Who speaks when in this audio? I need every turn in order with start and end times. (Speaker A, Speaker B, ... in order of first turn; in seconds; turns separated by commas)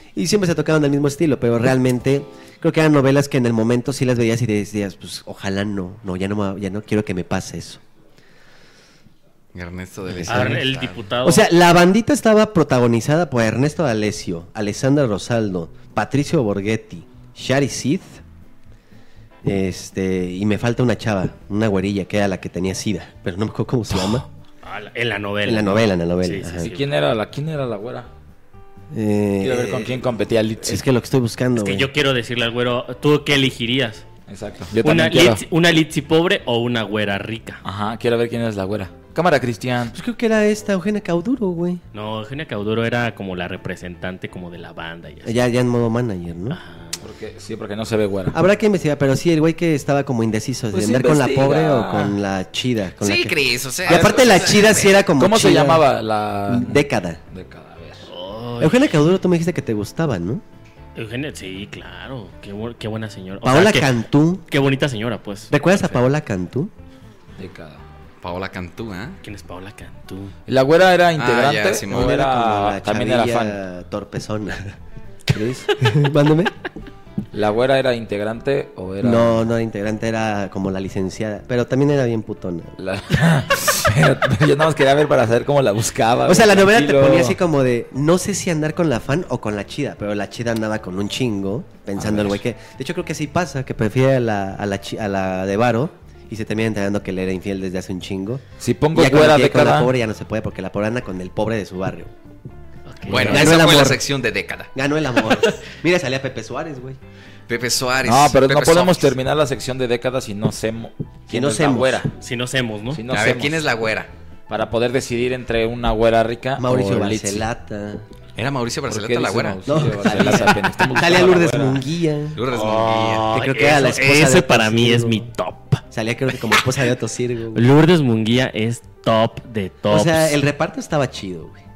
Speaker A: 0.1-7.8, Speaker B: 9.5-11.0, Speaker A: 10.2-10.6, Speaker C: 10.3-11.5, Speaker A: 11.2-18.2, Speaker A: 19.4-24.2, Speaker C: 24.6-26.8, Speaker A: 25.4-26.7, Speaker D: 26.6-28.1, Speaker A: 28.9-30.0, Speaker D: 29.4-30.8, Speaker A: 30.6-31.9, Speaker C: 31.6-34.0, Speaker D: 34.3-35.4, Speaker C: 34.8-37.6, Speaker D: 37.6-39.9, Speaker A: 39.9-41.8, Speaker C: 41.9-45.4, Speaker A: 45.2-46.6, Speaker C: 46.5-47.0, Speaker D: 47.0-48.4, Speaker A: 48.3-55.9, Speaker D: 50.7-52.2, Speaker B: 53.0-55.0, Speaker D: 53.9-58.0, Speaker A: 56.5-57.2, Speaker C: 58.1-58.8, Speaker A: 58.6-60.4, Speaker C: 61.0-63.9, Speaker A: 63.4-64.4, Speaker C: 64.5-66.0, Speaker A: 65.5-66.7, Speaker D: 67.4-67.8, Speaker B: 68.2-69.2, Speaker C: 69.2-70.3, Speaker D: 70.5-73.6, Speaker B: 71.2-72.2, Speaker A: 71.9-74.7, Speaker D: 75.3-75.7, Speaker A: 75.8-76.5, Speaker D: 77.3-79.5, Speaker A: 79.0-82.7, Speaker D: 82.8-87.4, Speaker A: 86.2-98.4, Speaker D: 92.0-92.4, Speaker D: 98.6-99.9, Speaker A: 98.9-102.1, Speaker C: 102.9-103.5, Speaker B: 103.1-104.7, Speaker A: 103.2-104.0, Speaker A: 104.7-107.0, Speaker B: 107.5-109.1, Speaker D: 108.0-112.1, Speaker A: 111.3-112.0, Speaker C: 112.2-113.0, Speaker D: 112.9-113.6, Speaker B: 113.1-114.1, Speaker D: 114.5-117.5, Speaker A: 116.6-118.0, Speaker B: 118.4-119.7, Speaker D: 118.9-121.8, Speaker A: 119.7-122.4, Speaker B: 122.3-123.3, Speaker C: 122.5-125.8, Speaker A: 123.3-125.2, Speaker A: 125.9-127.7, Speaker C: 127.5-130.4, Speaker A: 129.9-131.6